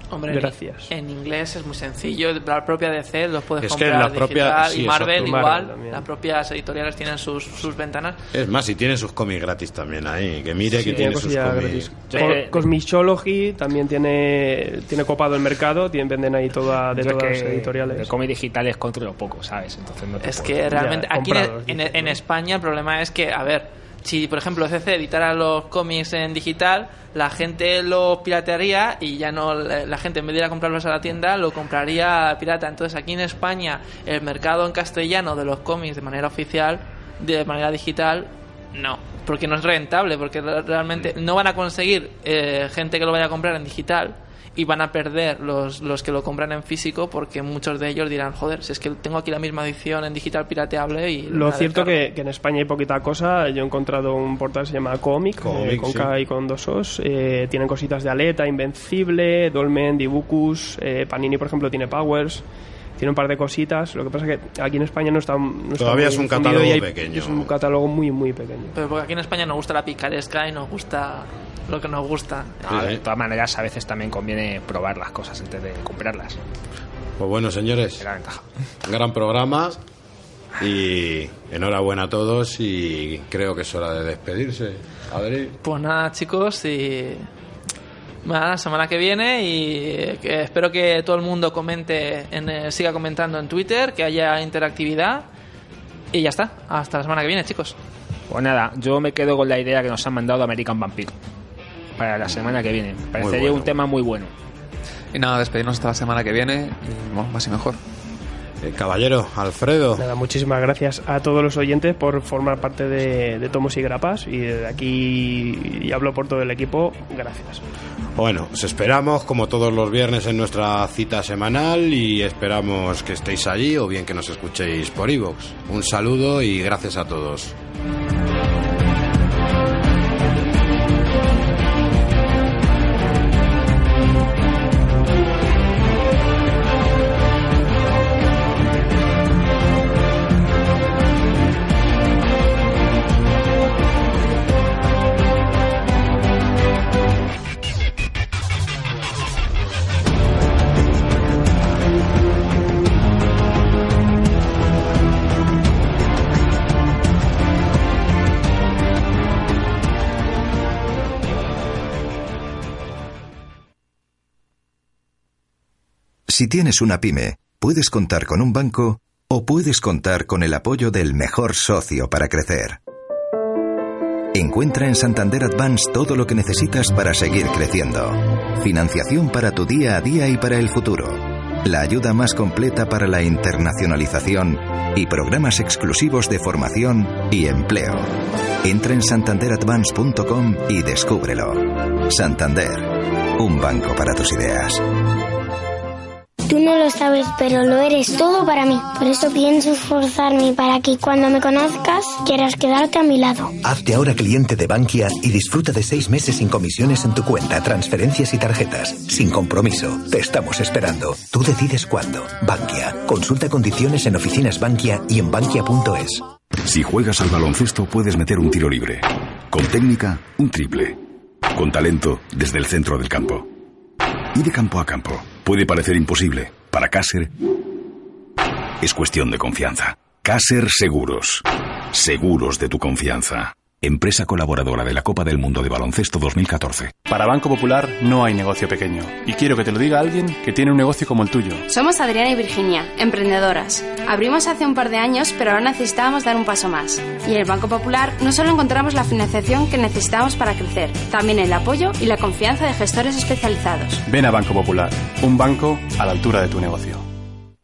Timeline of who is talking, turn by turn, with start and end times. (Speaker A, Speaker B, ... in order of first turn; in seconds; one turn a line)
Speaker A: 0.1-8.2
Speaker B: 0.3-0.9
Speaker C: 3.6-5.5
Speaker B: 5.1-6.0
Speaker C: 8.3-12.1
Speaker B: 10.7-18.1
Speaker D: 10.8-11.1
Speaker D: 12.1-12.7
Speaker D: 16.9-20.8
Speaker A: 20.2-52.0
Speaker B: 20.7-22.2
Speaker B: 51.3-62.4
Speaker C: 55.4-56.1
Speaker B: 63.0-68.7
Speaker C: 65.8-67.5
Speaker A: 68.7-72.6
Speaker D: 72.6-76.4
Speaker C: 72.7-73.0
Speaker C: 77.2-78.0
Speaker D: 78.0-78.4
Speaker C: 78.8-79.8
Speaker C: 80.6-85.6
Speaker A: 85.6-87.3
Speaker A: 88.2-95.2
Speaker A: 96.1-97.7
Speaker D: 98.3-101.1
Speaker D: 102.0-104.3
Speaker C: 103.2-103.8
Speaker E: 105.1-107.8
Speaker C: 108.6-110.1
Speaker B: 110.0-117.6
Speaker C: 118.2-127.5
Speaker F: 166.3-172.8
Speaker F: 174.3-188.1
Speaker F: 188.6-194.8
Speaker G: 196.5-203.6
Speaker H: 203.6-216.2
Speaker I: 216.6-221.0
Speaker I: 221.5-223.5
Speaker I: 224.3-227.3
Speaker I: 228.8-236.9
Speaker J: 237.1-241.6
Speaker K: 241.7-254.0
Speaker J: 254.1-257.0